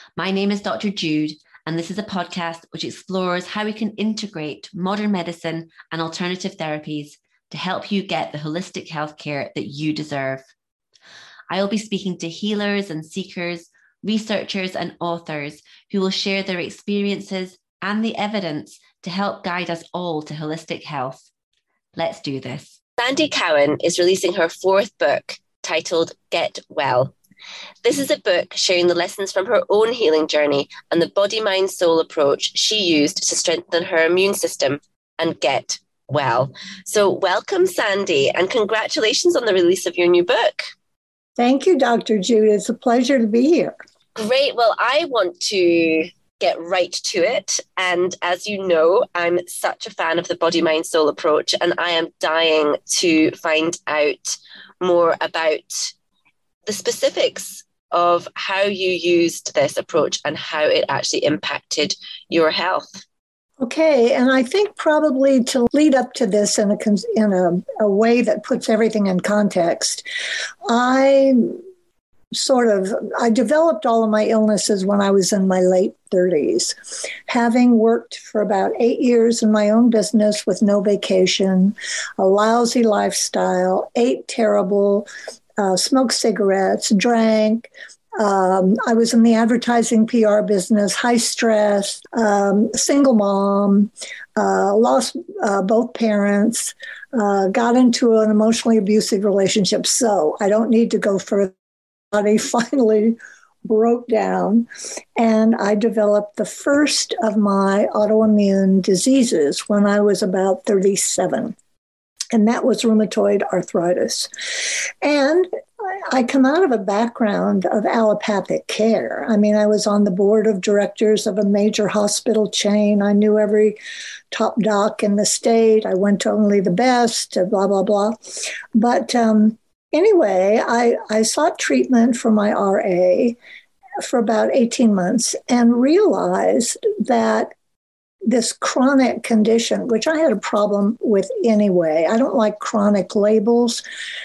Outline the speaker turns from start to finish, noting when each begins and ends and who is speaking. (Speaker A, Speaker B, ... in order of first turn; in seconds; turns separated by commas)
Speaker A: 0.2-10.4, Speaker B: 2.3-2.6, Speaker B: 3.3-6.8, Speaker B: 7.6-10.1, Speaker A: 11.5-13.4, Speaker B: 11.5-21.2, Speaker A: 14.0-20.1, Speaker A: 20.7-21.0, Speaker A: 22.0-22.3, Speaker B: 22.0-27.1, Speaker B: 27.8-40.6, Speaker C: 41.4-43.8, Speaker B: 44.2-55.9, Speaker B: 56.7-63.0, Speaker C: 63.6-70.0, Speaker C: 70.7-71.6, Speaker C: 72.3-101.5, Speaker C: 102.1-111.5, Speaker C: 112.3-123.8, Speaker C: 124.3-128.2, Speaker C: 128.8-133.4, Speaker C: 134.0-137.5, Speaker C: 138.3-143.8